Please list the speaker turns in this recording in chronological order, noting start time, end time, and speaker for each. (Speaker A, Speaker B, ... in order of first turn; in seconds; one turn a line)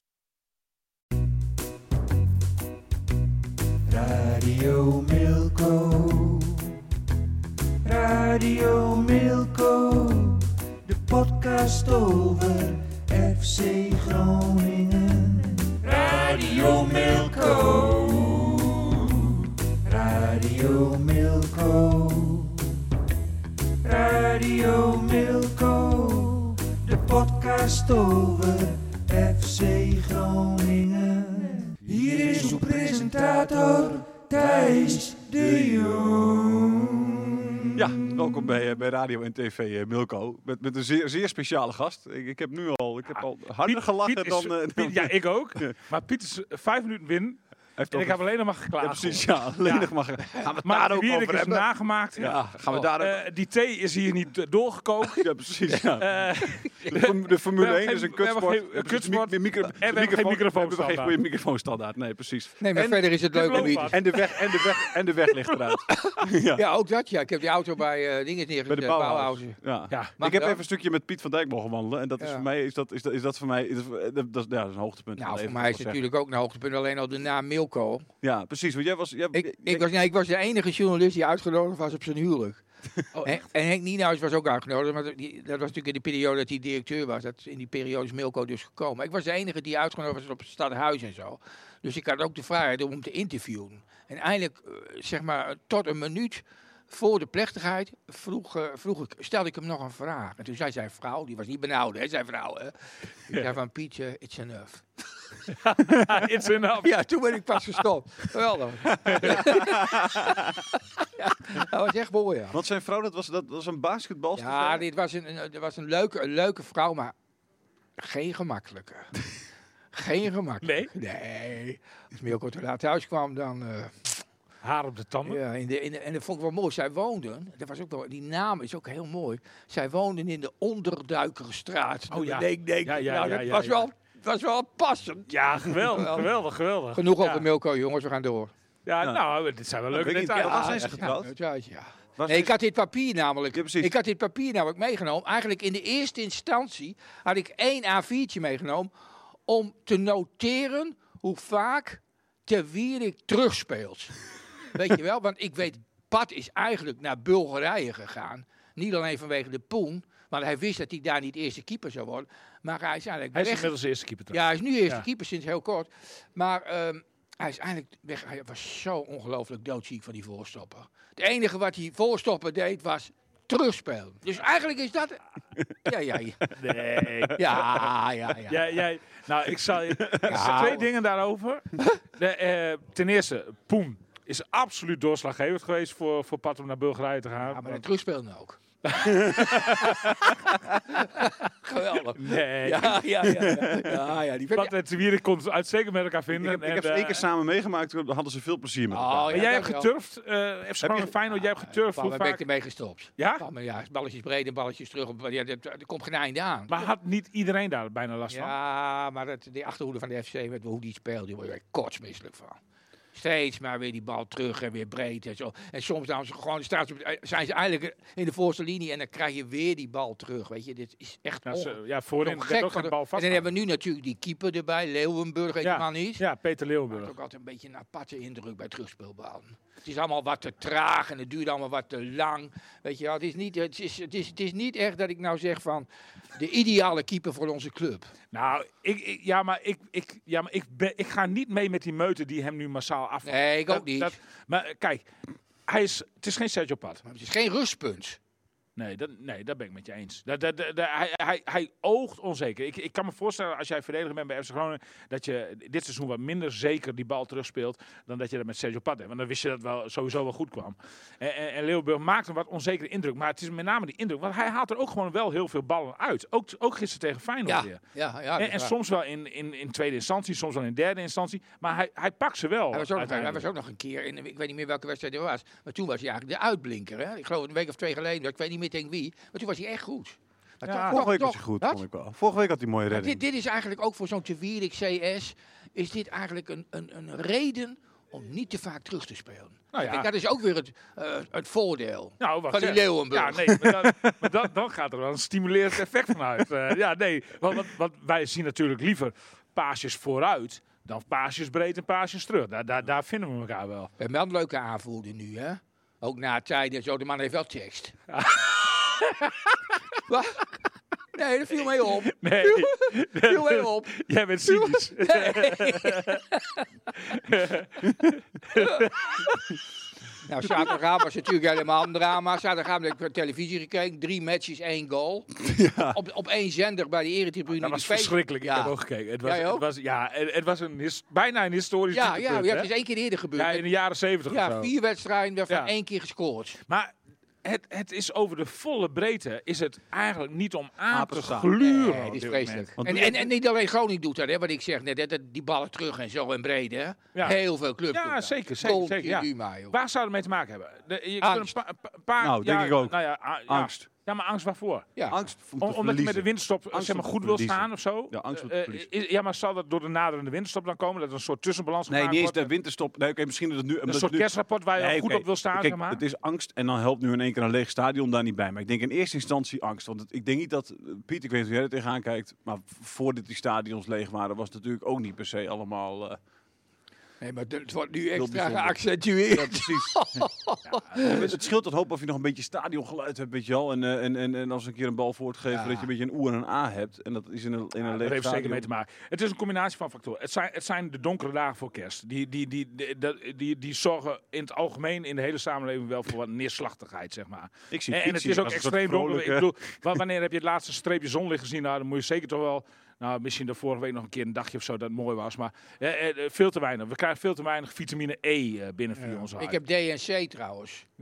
Speaker A: 3.9-6.8
Speaker A: 7.8-22.7
Speaker A: 23.8-37.8
Speaker B: 37.8-45.8
Speaker C: 43.2-49.9
Speaker B: 47.8-48.2
Speaker B: 48.8-51.6
Speaker C: 50.6-55.3
Speaker B: 52.2-53.2
Speaker D: 52.2-52.9
Speaker B: 55.2-66.6
Speaker C: 55.9-61.2
Speaker D: 62.6-64.0
Speaker C: 63.3-65.8
Speaker D: 65.9-69.6
Speaker B: 68.7-76.0
Speaker D: 70.2-70.6
Speaker D: 72.2-72.5
Speaker D: 75.2-78.1
Speaker B: 78.2-79.9
Speaker D: 79.3-82.6
Speaker C: 83.1-83.4
Speaker D: 83.2-102.8
Speaker D: 103.3-104.8
Speaker C: 105.5-107.0
Speaker D: 106.8-112.6
Speaker C: 109.1-109.6
Speaker B: 109.1-110.5
Speaker B: 112.5-114.8
Speaker D: 114.4-117.1
Speaker D: 118.0-119.1
Speaker D: 119.9-124.2
Speaker C: 120.6-120.9
Speaker C: 124.6-125.4
Speaker D: 125.2-136.3
Speaker C: 132.1-133.8
Speaker C: 135.3-137.5
Speaker D: 136.9-138.5
Speaker C: 138.8-141.1
Speaker B: 139.9-141.3
Speaker D: 140.3-148.9
Speaker B: 142.2-142.6
Speaker B: 143.5-143.9
Speaker D: 149.5-154.2
Speaker D: 154.7-163.7
Speaker C: 163.3-165.1
Speaker D: 164.3-175.2
Speaker D: 175.8-176.5
Speaker C: 176.6-177.9
Speaker D: 177.3-178.7
Speaker C: 178.5-187.8
Speaker B: 180.0-180.3
Speaker D: 180.2-180.9
Speaker D: 187.5-194.7
Speaker C: 188.9-190.3
Speaker C: 192.1-193.2
Speaker B: 193.3-193.9
Speaker C: 194.6-197.2
Speaker B: 196.3-199.5
Speaker D: 198.9-199.9
Speaker C: 199.3-202.4
Speaker B: 200.8-201.1
Speaker D: 201.3-206.9
Speaker C: 203.2-203.4
Speaker C: 206.7-208.5
Speaker D: 208.3-212.6
Speaker D: 213.1-226.2
Speaker C: 221.5-223.5
Speaker C: 225.6-227.1
Speaker D: 226.9-238.1
Speaker C: 238.3-245.1
Speaker D: 243.2-244.2
Speaker C: 245.7-247.0
Speaker D: 247.0-248.2
Speaker C: 248.8-267.8
Speaker D: 267.4-268.7
Speaker C: 268.4-273.5
Speaker D: 272.7-281.8
Speaker C: 280.6-281.1
Speaker B: 280.9-283.2
Speaker D: 282.9-293.6
Speaker C: 289.7-290.1
Speaker C: 292.2-303.9
Speaker D: 304.0-307.9
Speaker C: 308.1-309.5
Speaker D: 310.1-310.5
Speaker D: 311.1-316.4
Speaker C: 311.8-319.4
Speaker D: 318.5-318.9
Speaker D: 320.2-329.6
Speaker B: 325.4-326.0
Speaker C: 327.5-332.7
Speaker D: 331.9-333.6
Speaker C: 333.3-334.7
Speaker D: 334.3-336.6
Speaker C: 337.4-342.7
Speaker B: 340.9-342.1
Speaker D: 341.6-349.8
Speaker B: 342.8-343.3
Speaker C: 347.9-354.9
Speaker D: 351.2-351.5
Speaker B: 352.2-353.9
Speaker D: 354.9-355.2
Speaker B: 355.1-358.9
Speaker C: 355.6-362.5
Speaker B: 361.9-376.2
Speaker C: 363.9-366.0
Speaker D: 377.2-381.4
Speaker B: 378.1-380.0
Speaker B: 380.9-388.7
Speaker D: 385.5-385.9
Speaker C: 387.8-409.6
Speaker B: 397.7-399.5
Speaker D: 408.9-410.8